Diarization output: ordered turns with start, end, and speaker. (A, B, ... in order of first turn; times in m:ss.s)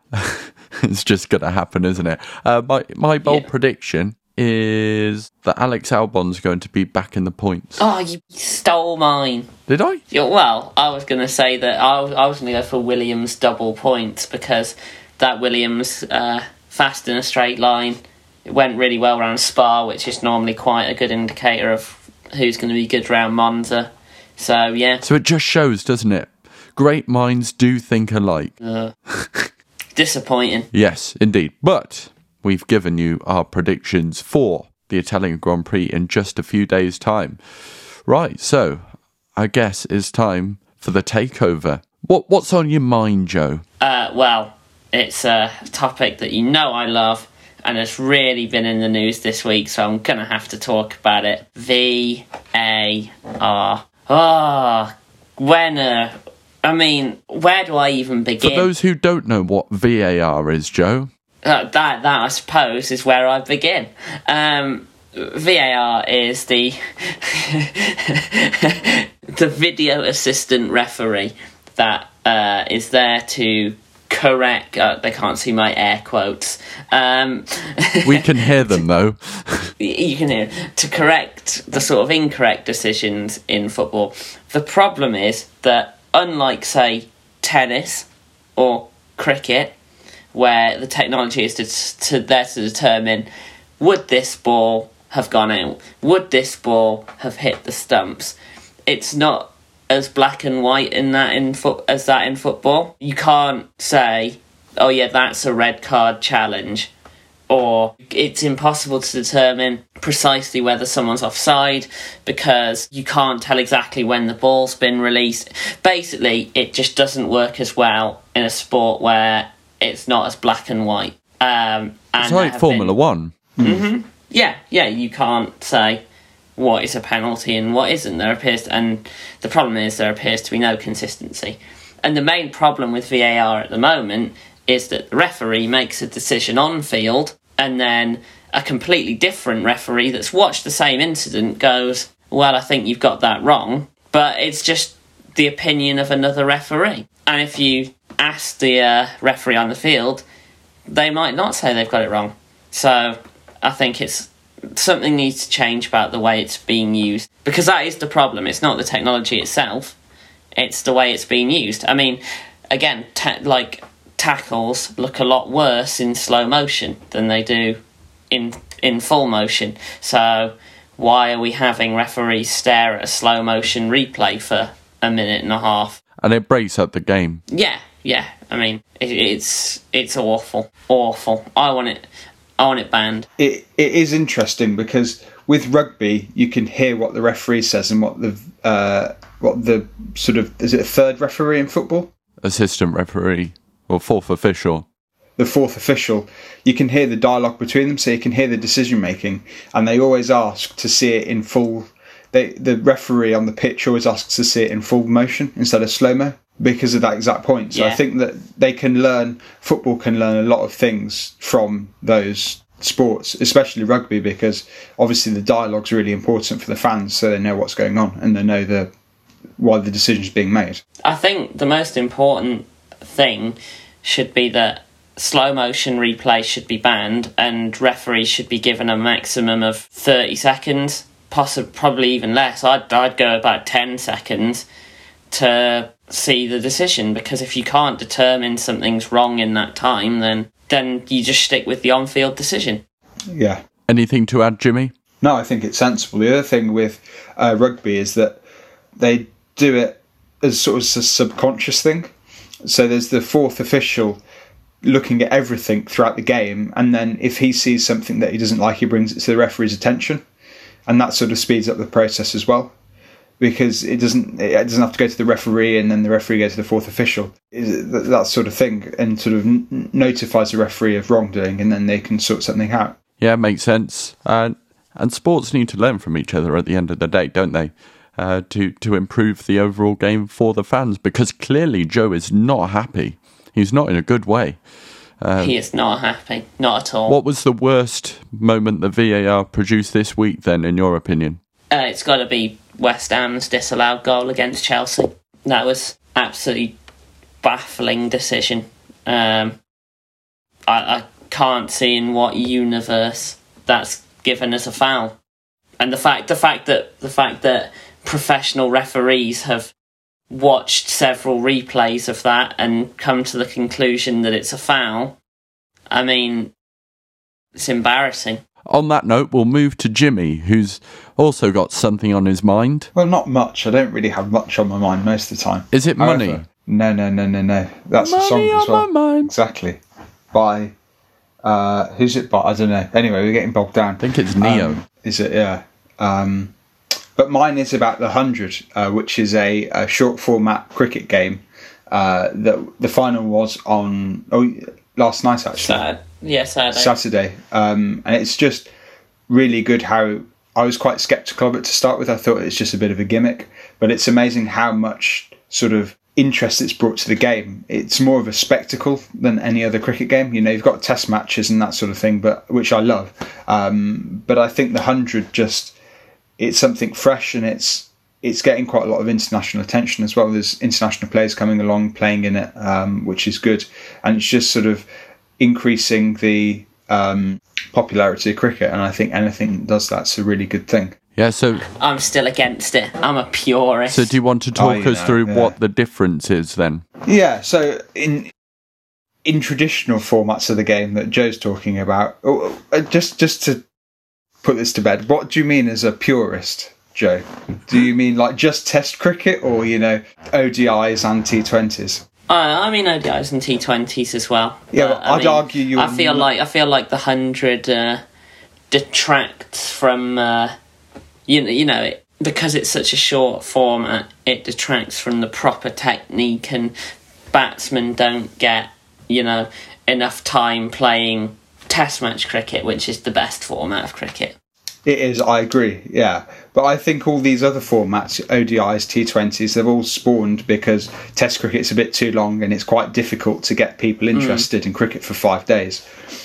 0:00.1-0:07.8 A
0:07.8-0:09.5 B
0:09.7-0:10.0 A
0:10.1-0:25.0 B
0:25.0-0:28.6 A
0:28.6-0:28.9 B
0:29.1-0:29.5 A
0:30.0-0:30.7 B
0:30.7-0:37.4 A
0:38.1-0:38.8 A
0:39.4-0:43.6 A
0:43.8-0:58.7 B
0:58.4-1:01.1 A
1:01.4-1:18.8 B
1:18.0-1:19.7 A
1:19.8-1:29.8 B
1:30.3-1:33.3 B
1:33.8-1:38.4 B
1:38.9-1:46.9 B
1:47.5-2:02.9 B
2:02.2-2:03.3 A
2:03.6-2:03.9 C
2:03.6-2:06.0 B
2:06.6-2:30.2 B
2:30.9-2:40.0 B
2:40.6-2:47.8 B
2:48.3-2:56.0 B
2:56.2-2:57.4 A
2:57.5-3:02.0 B
3:02.6-3:03.3 B
3:03.4-3:12.1 C
3:12.4-3:14.9 A
3:15.4-3:38.9 C
3:27.7-3:28.0 B
3:39.6-3:40.8 C
3:41.0-3:54.7 B
3:55.3-4:02.8 B
4:03.3-4:03.6 C
4:03.9-4:04.9 A
4:05.2-4:08.4 C
4:09.0-4:12.1 C
4:12.6-4:14.2 C
4:14.8-4:20.2 C
4:20.9-4:22.7 C
4:23.4-4:33.0 C
4:33.2-4:44.6 A
4:45.2-4:45.6 A
4:45.4-4:47.2 B
4:47.1-4:51.4 A
4:51.7-4:56.8 B
4:57.4-4:59.6 B
5:00.7-5:05.2 B
5:05.8-5:09.7 B
5:10.3-5:15.2 B
5:15.9-5:16.5 B
5:17.6-5:18.4 B
5:18.7-5:22.9 A
5:23.0-5:29.8 C
5:25.7-5:26.4 A
5:28.0-5:29.3 A
5:30.3-5:30.7 C
5:31.4-5:36.5 C
5:34.0-5:34.8 A
5:37.2-5:45.8 C
5:45.6-5:46.9 B
5:46.7-5:48.7 C
5:49.3-6:05.8 C
6:06.4-6:14.9 C
6:15.4-6:21.0 C
6:21.2-6:21.6 A
6:21.6-6:24.1 B
6:23.9-6:26.8 A
6:24.6-6:25.5 C
6:27.0-6:28.3 C
6:29.2-6:33.6 C
6:34.4-6:42.0 C
6:42.3-6:48.0 B
6:44.7-6:46.3 C
6:48.7-6:50.6 B
6:51.3-6:56.7 B
6:57.3-7:04.4 B
7:04.9-7:15.8 C
7:14.2-7:14.5 B